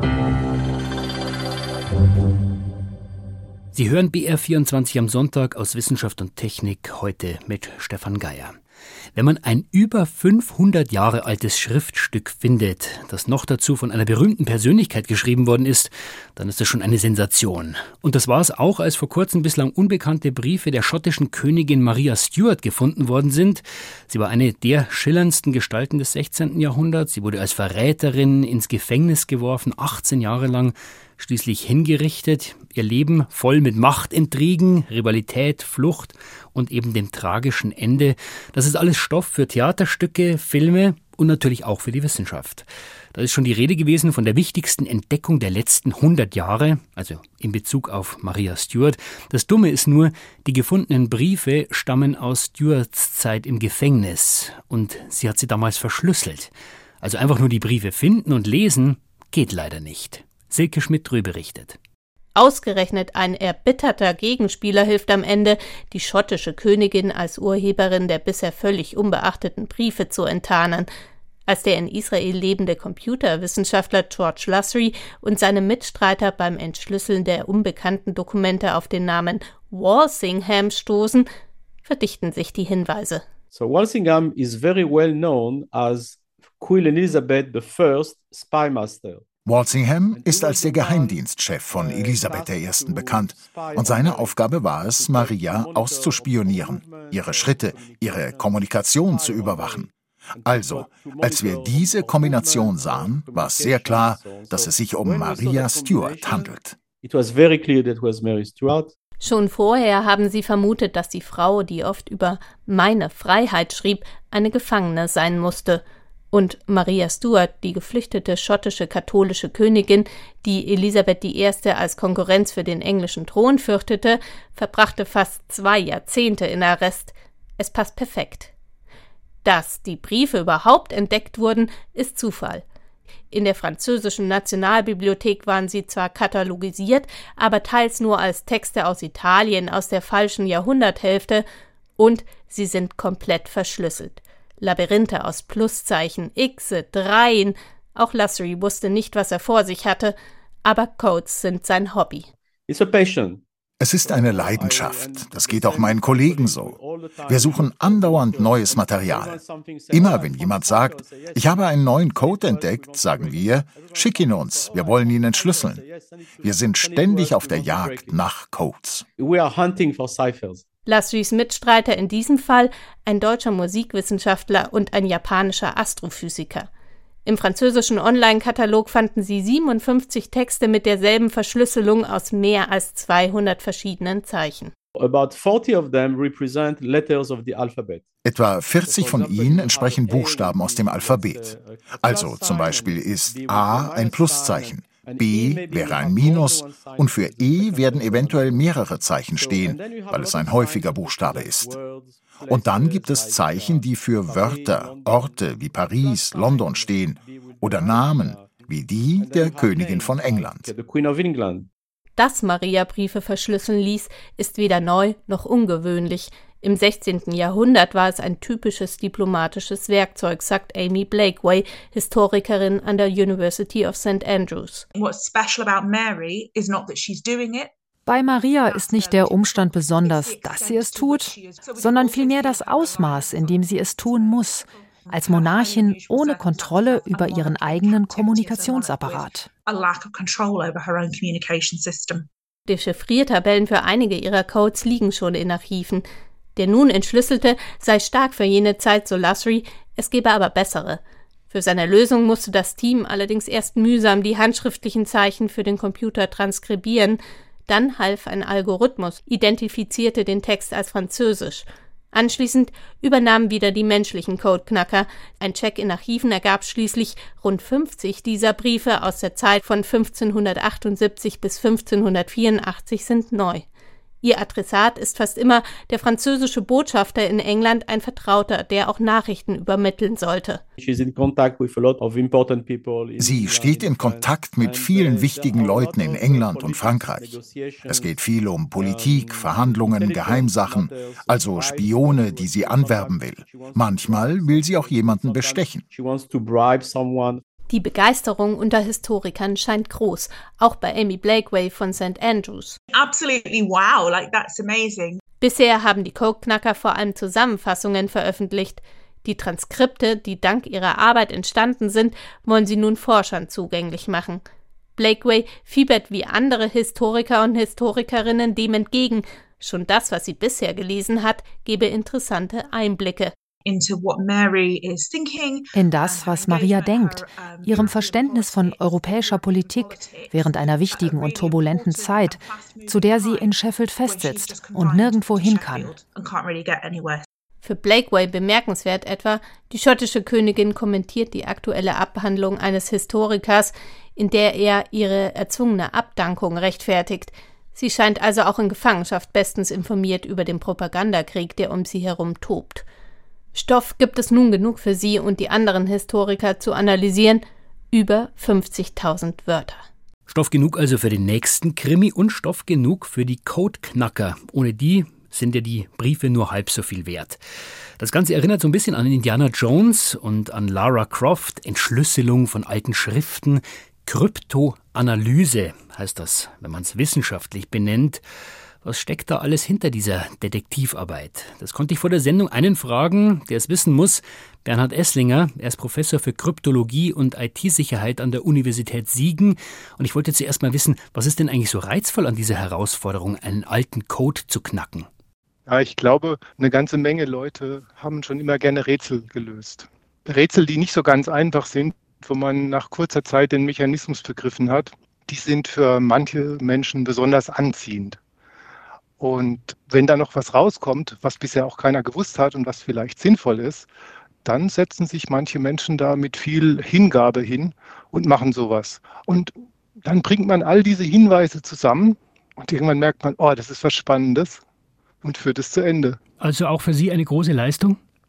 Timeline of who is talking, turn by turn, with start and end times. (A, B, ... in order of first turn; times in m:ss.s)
0:03.7-0:08.6 A
0:09.2-1:01.8 A
1:02.4-1:10.9 B
1:11.5-1:21.3 B
1:21.8-1:23.2 B
1:23.5-1:29.2 C
1:29.4-1:39.9 D
1:30.1-1:48.9 C
1:40.4-1:46.8 D
1:49.2-2:08.5 B
2:09.4-2:12.6 B
2:13.3-2:21.4 B
2:22.0-2:32.3 B
2:32.7-2:33.4 C
2:33.8-2:39.4 D
2:34.0-2:48.2 C
2:39.9-2:45.8 D
2:46.4-2:49.0 D
2:49.2-2:50.6 C
2:50.9-2:56.7 B
2:57.3-3:04.7 B
3:05.0-3:08.1 C
3:08.2-3:21.8 D
3:08.8-3:31.7 C
3:22.5-3:30.7 D
3:32.2-3:44.8 B
3:45.0-3:47.7 E
3:48.1-3:59.5 F
3:48.5-4:02.3 E
4:02.7-4:06.0 B
4:06.6-4:33.7 B
4:34.2-4:40.6 B
4:40.8-4:48.2 C
4:43.2-4:55.8 D
4:48.8-4:57.4 C
4:57.7-5:02.8 B
5:02.9-5:05.2 E
5:05.4-5:14.4 B
5:15.0-5:23.3 B
5:23.6-5:37.2 E
5:25.8-5:36.0 F
5:37.6-5:52.8 B
5:53.5-5:59.8 B
6:00.3-6:07.4 A
6:08.0-6:18.2 A
6:18.8-6:35.1 A
6:35.7-6:48.2 G
6:49.2-6:53.9 G
6:54.4-7:04.6 G
7:05.2-7:06.2 G
7:06.4-7:08.0 A